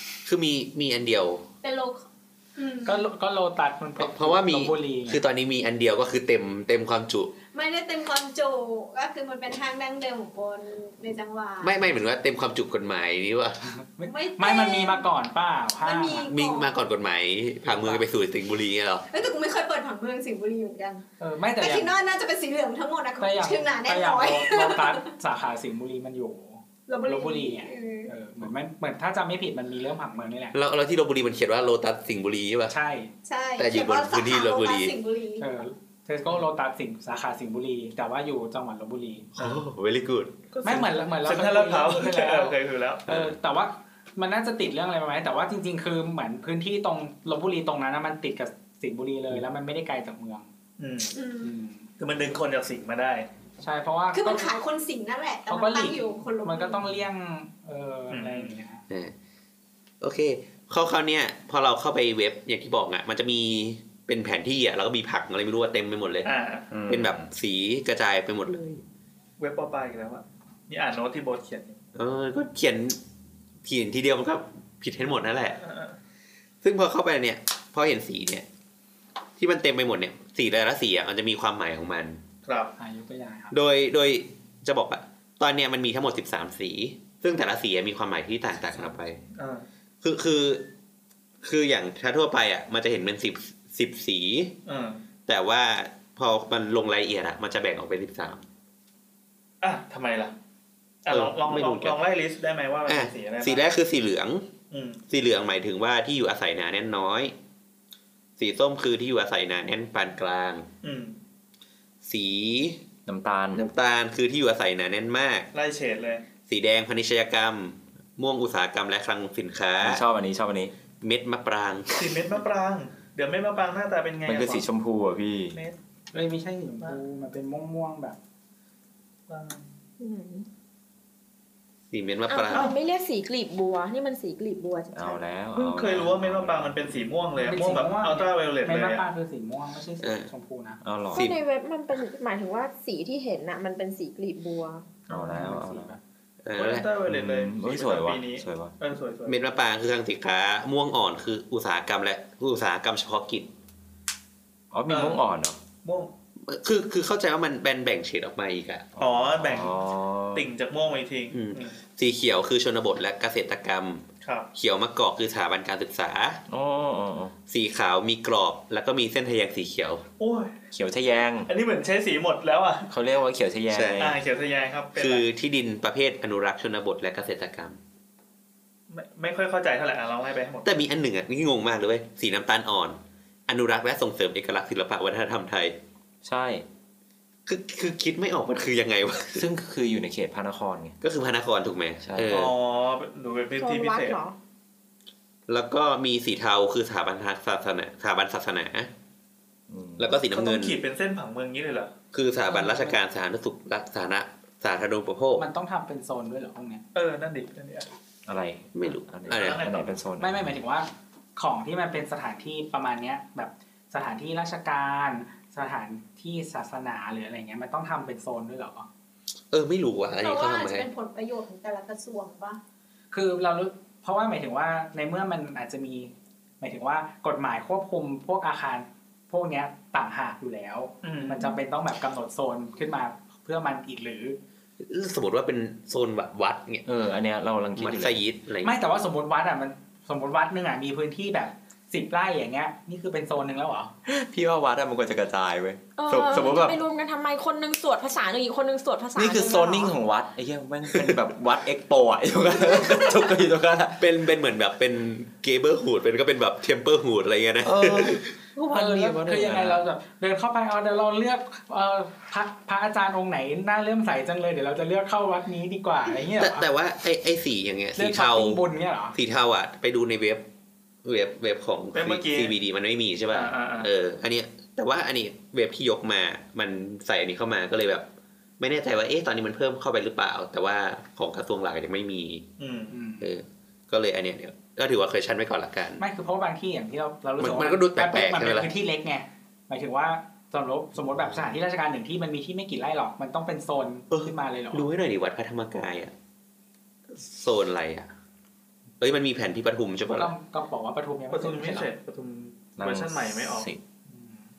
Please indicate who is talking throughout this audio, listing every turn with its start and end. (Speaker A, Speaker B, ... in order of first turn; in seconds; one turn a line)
Speaker A: 0.2-1.4
Speaker B: 1.6-3.1
Speaker C: 2.9-5.2
Speaker A: 4.0-7.3
Speaker B: 7.5-11.9
Speaker A: 11.6-13.7
Speaker C: 13.8-16.3
Speaker B: 14.0-15.1
Speaker B: 15.8-16.8
Speaker A: 16.3-19.1
Speaker C: 17.6-18.0
Speaker B: 19.1-21.0
Speaker C: 21.2-21.9
Speaker B: 21.6-25.2
Speaker C: 23.2-30.6
Speaker B: 26.9-28.1
Speaker A: 30.5-32.8
Speaker C: 32.7-33.1
Speaker B: 33.2-35.6
Speaker A: 33.6-34.9
Speaker C: 35.4-39.3
Speaker A: 39.4-40.5
Speaker D: 39.4-39.6
Speaker D: 40.5-43.1
Speaker C: 40.6-42.6
Speaker C: 43.1-50.5
Speaker A: 43.1-43.3
Speaker D: 50.8-51.2
Speaker B: 51.1-51.5
Speaker C: 51.4-51.9
Speaker D: 52.0-53.3
Speaker C: 53.6-54.5
Speaker B: 54.1-56.9
Speaker C: 55.5-58.8
Speaker D: 58.1-58.5
Speaker A: 58.9-59.1
Speaker A: 60.0-66.3
Speaker D: 66.2-66.7
Speaker E: 66.7-67.3
Speaker A: 66.9-68.8
Speaker D: 69.4-71.8
Speaker A: 72.0-73.0
Speaker A: 73.7-75.6
Speaker D: 75.6-76.0
Speaker A: 76.6-78.5
Speaker A: 79.4-82.2
Speaker D: 82.5-82.7
Speaker C: 82.8-83.5
Speaker A: 83.5-89.2
Speaker D: 89.4-89.7
Speaker A: 90.0-90.7
Speaker A: 91.4-94.6
Speaker D: 94.7-95.0
Speaker A: 95.3-98.5
Speaker D: 99.6-100.3
Speaker D: 101.0-103.7
Speaker A: 101.1-102.0
Speaker A: 102.9-104.5
Speaker D: 104.7-105.0
Speaker A: 105.1-107.3
Speaker A: 108.4-110.7
Speaker D: 110.8-111.2
Speaker A: 112.0-112.8
Speaker E: 113.1-113.7
Speaker A: 113.5-115.5
Speaker D: 115.5-116.2
Speaker A: 116.5-120.0
Speaker E: 119.8-120.7
Speaker A: 121.0-122.0
Speaker D: 121.9-124.7
Speaker E: 124.3-125.6
Speaker D: 125.5-125.8
Speaker C: 126.1-128.2
Speaker D: 129.3-129.7
Speaker F: 130.0-130.5
Speaker A: 131.9-132.7
Speaker F: 132.3-135.2
Speaker E: 134.9-137.0
Speaker D: 135.6-139.1
Speaker C: 137.4-140.8
Speaker A: 140.0-140.3
Speaker E: 140.8-141.3
Speaker F: 141.1-144.9
Speaker A: 141.1-141.4
Speaker C: 145.1-146.0
Speaker E: 145.1-146.0
Speaker A: 146.4-146.9
Speaker D: 146.6-149.4
Speaker E: 147.1-148.7
Speaker A: 149.3-153.5
Speaker E: 154.7-155.6
Speaker D: 154.9-155.2
Speaker D: 155.8-156.1
Speaker A: 156.4-158.9
Speaker E: 159.0-160.5
Speaker D: 159.0-159.8
Speaker D: 160.3-161.8
Speaker A: 161.3-166.4
Speaker D: 164.2-164.5
Speaker E: 166.5-167.3
Speaker A: 167.5-170.1
Speaker D: 170.2-170.6
Speaker E: 170.7-171.5
Speaker D: 171.5-172.9
Speaker E: 172.9-174.2
Speaker A: 173.7-174.2
Speaker D: 174.0-175.2
Speaker A: 175.0-177.8
Speaker D: 178.9-180.7
Speaker A: 180.7-185.8
Speaker E: 186.2-186.7
Speaker A: 187.5-189.5
Speaker E: 189.3-191.0
Speaker A: 191.0-192.5
Speaker E: 192.0-192.3
Speaker D: 192.3-194.2
Speaker F: 193.6-194.4
Speaker A: 195.5-198.9
Speaker E: 199.7-200.2
Speaker A: 200.0-200.8
Speaker D: 200.3-201.9
Speaker A: 202.1-205.5
Speaker C: 202.5-203.0
Speaker C: 205.4-206.8
Speaker D: 206.9-207.9
Speaker E: 208.3-210.5
Speaker A: 208.8-209.6
Speaker D: 209.3-209.9
Speaker C: 210.2-218.9
Speaker A: 219.5-220.9
Speaker B: 220.2-222.6
Speaker C: 223.1-234.4
Speaker D: 231.0-231.4
Speaker A: 234.8-236.9
Speaker E: 236.9-238.2
Speaker A: 237.8-238.8
Speaker C: 238.6-243.9
Speaker E: 244.1-246.8
Speaker F: 246.0-249.9
Speaker E: 249.2-254.0
Speaker A: 254.0-258.3
Speaker E: 257.6-259.8
Speaker C: 258.7-266.7
Speaker A: 266.4-270.5
Speaker C: 267.9-269.2
Speaker A: 271.1-278.1
Speaker D: 271.9-272.6
Speaker D: 273.3-273.9
Speaker A: 278.6-282.5
Speaker D: 282.6-283.0
Speaker C: 282.9-283.3
Speaker A: 283.2-286.0
Speaker C: 286.0-294.9
Speaker A: 287.4-288.7
Speaker A: 294.1-296.1
Speaker A: 297.1-298.1
Speaker A: 299.0-300.3
Speaker C: 300.1-301.9
Speaker D: 301.3-303.7
Speaker E: 302.8-303.8
Speaker C: 304.1-304.4